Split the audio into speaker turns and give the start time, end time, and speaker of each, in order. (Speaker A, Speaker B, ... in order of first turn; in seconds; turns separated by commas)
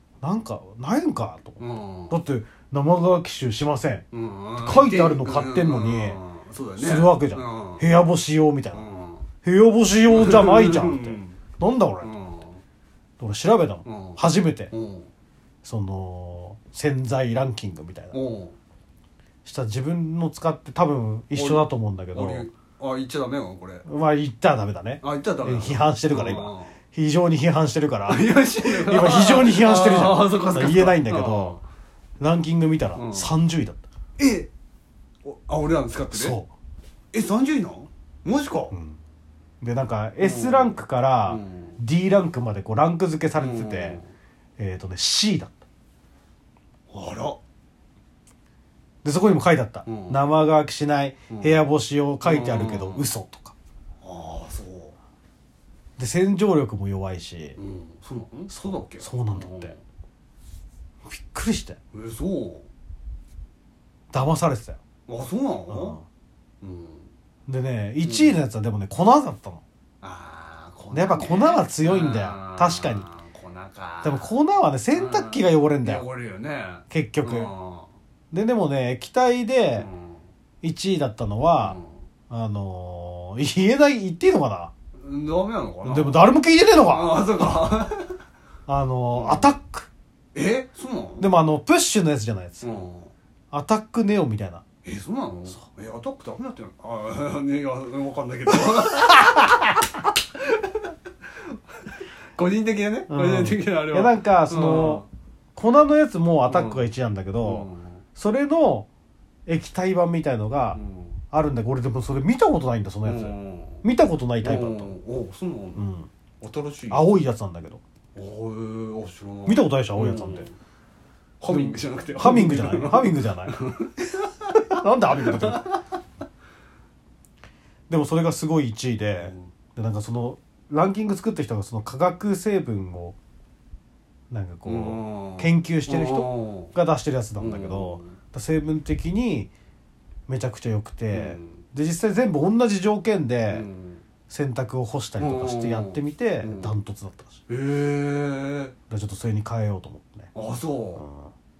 Speaker A: 0.2-4.0, Speaker B: 1.6-2.2, Speaker B: 4.1-7.8, Speaker A: 4.6-6.2, Speaker A: 6.8-8.8, Speaker B: 8.7-9.3, Speaker A: 9.4-12.1, Speaker B: 10.1-11.4, Speaker B: 12.0-12.6, Speaker A: 13.2-14.7, Speaker B: 13.8-15.1, Speaker A: 15.6-18.2, Speaker B: 18.1-18.6, Speaker A: 19.4-22.5, Speaker B: 21.3-23.9, Speaker A: 23.8-31.6, Speaker B: 25.0-26.8, Speaker B: 28.1-31.6, Speaker A: 32.2-33.8, Speaker B: 32.9-33.3, Speaker B: 34.2-34.5, Speaker B: 35.2-36.4, Speaker A: 36.1-36.5, Speaker B: 37.1-38.7, Speaker A: 38.7-39.0, Speaker A: 39.6-44.0, Speaker B: 40.2-41.8, Speaker B: 43.4-44.1, Speaker A: 44.6-45.6, Speaker B: 46.9-47.4, Speaker A: 49.0-53.5, Speaker B: 49.9-50.2, Speaker B: 51.3-51.6, Speaker B: 52.2-53.1, Speaker B: 54.0-55.0, Speaker A: 56.0-57.6, Speaker B: 57.6-59.8, Speaker A: 58.5-59.8, Speaker A: 61.0-61.8, Speaker B: 61.9-62.7, Speaker A: 64.1-64.8, Speaker B: 65.1-66.0, Speaker A: 65.7-66.0, Speaker B: 66.6-67.1, Speaker A: 67.5-69.6, Speaker B: 68.0-68.4, Speaker B: 70.0-74.3, Speaker A: 70.9-73.1, Speaker A: 74.0-76.0, Speaker B: 74.9-77.9, Speaker A: 76.9-77.5, Speaker A: 78.3-79.9, Speaker B: 79.8-80.2, Speaker A: 80.6-81.8, Speaker B: 81.6-82.0, Speaker A: 82.3-84.7, Speaker B: 85.0-88.2, Speaker A: 85.8-87.2, Speaker A: 88.7-89.9, Speaker B: 89.1-89.5, Speaker B: 90.3-91.3, Speaker A: 91.2-92.7, Speaker B: 92.6-93.1, Speaker A: 93.5-94.6, Speaker B: 94.8-99.4, Speaker B: 100.4-100.9, Speaker B: 102.4-105.1, Speaker A: 103.1-105.0, Speaker A: 105.5-108.9, Speaker B: 106.5-106.9, Speaker B: 107.4-108.0, Speaker A: 109.5-110.8, Speaker B: 110.7-111.2, Speaker A: 111.3-114.9, Speaker B: 113.0-113.8, Speaker B: 114.4-115.8, Speaker A: 115.8-116.1, Speaker B: 116.4-117.2, Speaker A: 116.9-117.8, Speaker B: 118.1-120.5, Speaker A: 119.5-120.5, Speaker B: 121.4-125.8, Speaker A: 121.5-123.5, Speaker A: 124.6-125.6, Speaker A: 127.9-133.2, Speaker B: 129.2-129.5, Speaker A: 134.3-139.5, Speaker B: 134.6-136.7, Speaker B: 137.4-138.2, Speaker A: 140.3-143.7, Speaker B: 141.1-141.6, Speaker B: 143.5-144.0, Speaker A: 144.3-147.4, Speaker B: 145.2-146.7, Speaker B: 147.5-148.7, Speaker A: 148.9-150.3, Speaker B: 150.3-151.0, Speaker A: 151.0-151.3